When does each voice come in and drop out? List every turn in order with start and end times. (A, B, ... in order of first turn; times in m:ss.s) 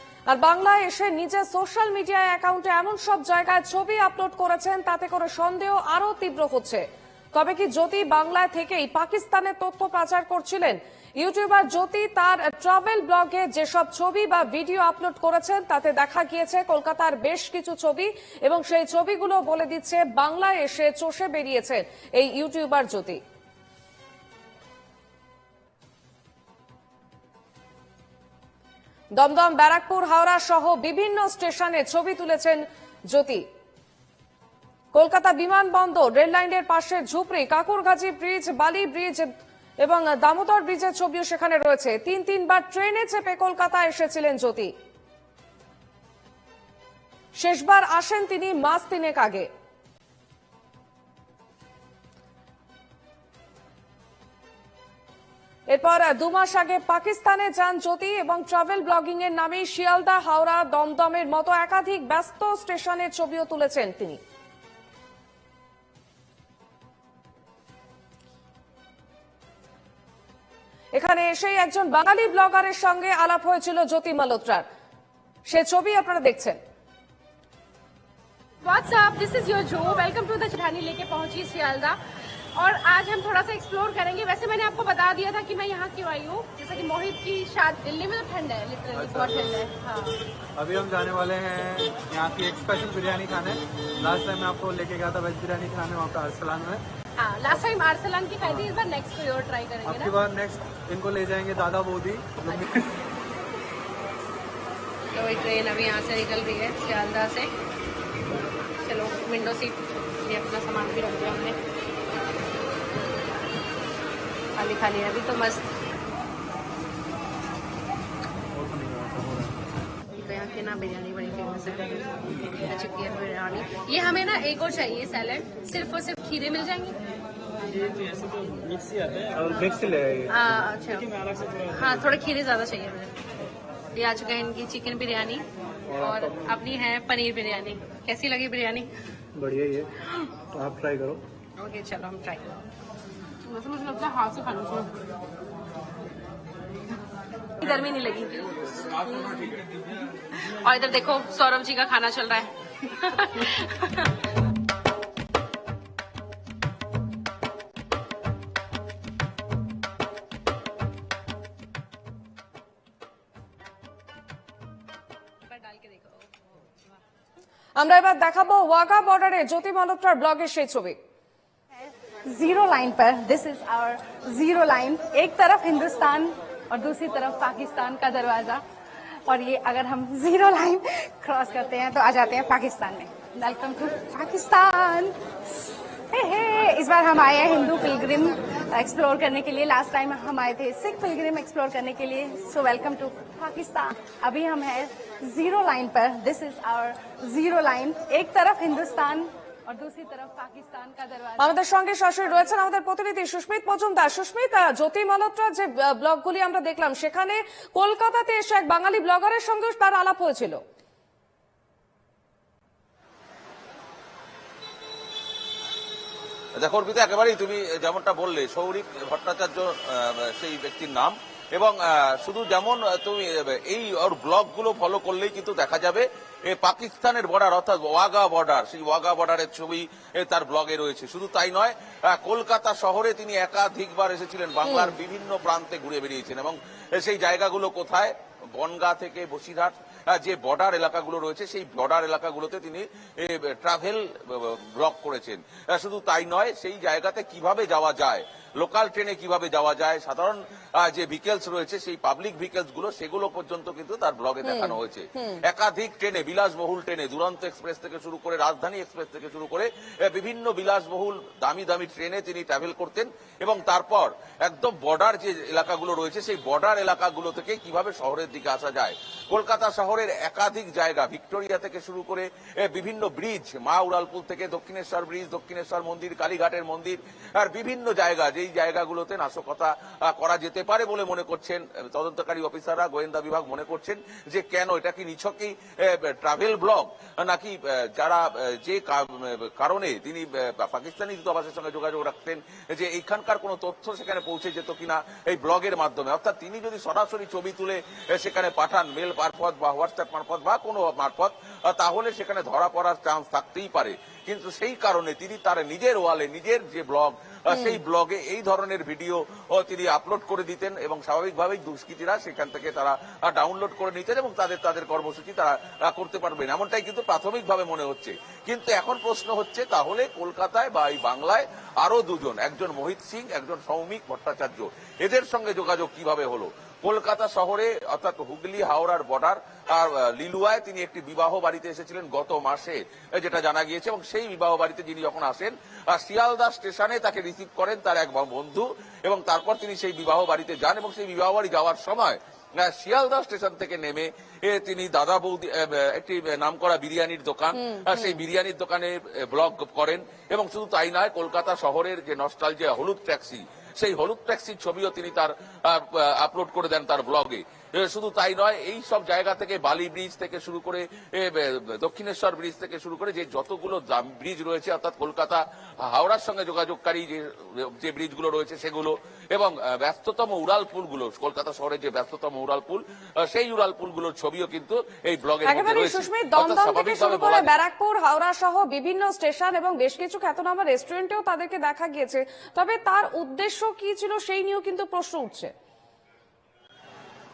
0:00.3-0:23.2 A
0:29.2-0:33.4 A
0:34.9-0:39.3 A
0:39.8-0:44.7 A
0:47.4-0:49.5 A
0:55.7-1:04.2 A
1:10.9-1:14.6 A
1:15.5-1:16.6 A
1:18.6-1:22.0 B
1:22.6-1:30.2 B
1:28.9-1:29.4 C
1:30.6-1:36.8 C
1:37.2-1:40.1 B
1:38.4-1:38.7 C
1:39.8-1:42.8 C
1:45.1-1:47.5 B
1:48.8-1:51.6 B
1:54.5-1:55.6 B
1:58.5-1:59.6 C
2:00.2-2:07.0 B
2:09.3-2:10.6 C
2:10.3-2:11.1 B
2:11.6-2:13.1 B
2:13.9-2:18.9 B
2:15.9-2:16.3 C
2:19.3-2:19.9 C
2:20.5-2:21.2 C
2:21.6-2:22.4 B
2:23.4-2:25.0 B
2:27.6-2:29.6 B
2:30.3-2:34.2 B
2:45.5-2:46.3 B
2:47.8-2:51.0 A
2:51.8-2:58.6 D
2:59.2-3:21.5 D
3:21.4-3:30.6 A
3:36.6-6:17.5 E
3:54.6-3:54.9 A
4:14.4-4:15.4 A
5:07.5-5:07.8 A
5:47.6-5:48.2 A
6:15.4-6:25.5 A